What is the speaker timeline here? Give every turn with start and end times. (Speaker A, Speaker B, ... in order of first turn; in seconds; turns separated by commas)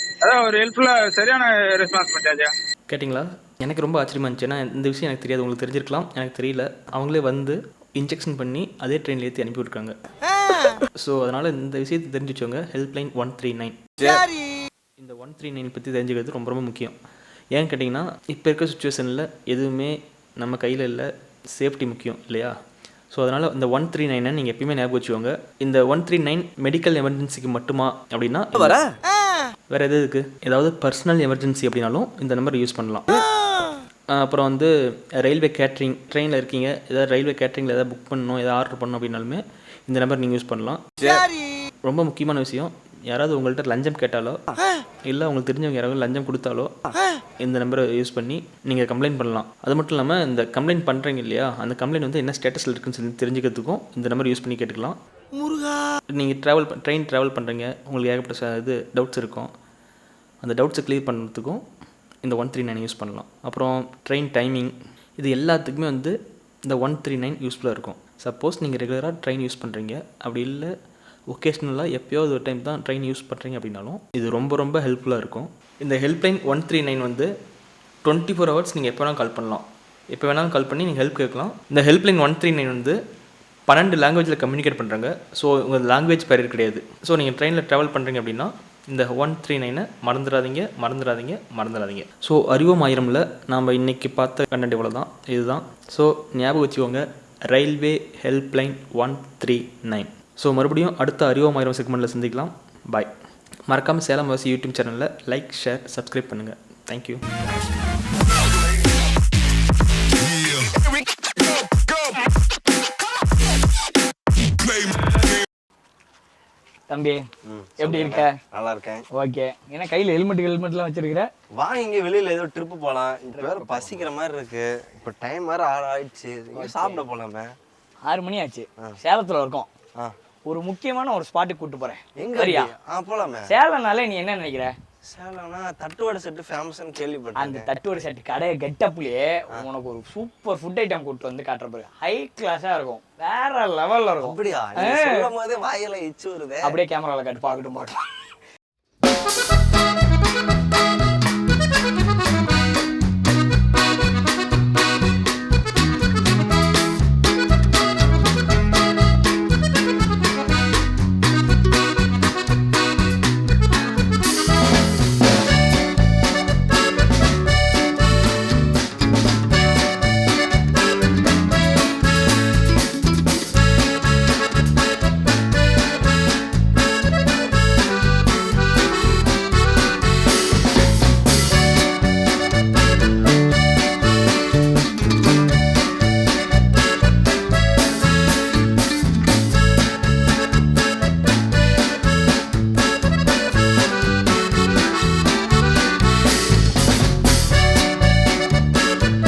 Speaker A: 0.2-2.5, Speaker B: 2.9-9.9, Speaker B: 11.0-13.8, Speaker B: 15.0-16.9, Speaker B: 17.5-22.5, Speaker B: 23.1-28.8, Speaker B: 29.7-33.2, Speaker B: 34.1-40.8, Speaker B: 41.9-44.4, Speaker B: 45.1-46.7, Speaker B: 47.4-55.0, Speaker B: 56.1-59.5, Speaker B: 60.4-61.6, Speaker B: 62.2-66.2, Speaker B: 66.7-70.7, Speaker B: 71.3-77.3, Speaker B: 78.0-83.0, Speaker B: 83.7-103.1, Speaker B: 103.7-107.2, Speaker C: 116.9-117.3, Speaker D: 117.5-119.0, Speaker C: 117.8-118.4, Speaker C: 119.1-121.3, Speaker D: 121.5-127.5, Speaker C: 123.3-124.1, Speaker C: 126.5-127.0, Speaker C: 128.0-129.7, Speaker C: 130.4-132.7, Speaker D: 132.2-133.5, Speaker C: 133.4-134.7, Speaker D: 135.1-137.7, Speaker C: 137.3-145.3, Speaker D: 144.2-146.8, Speaker C: 146.6-148.3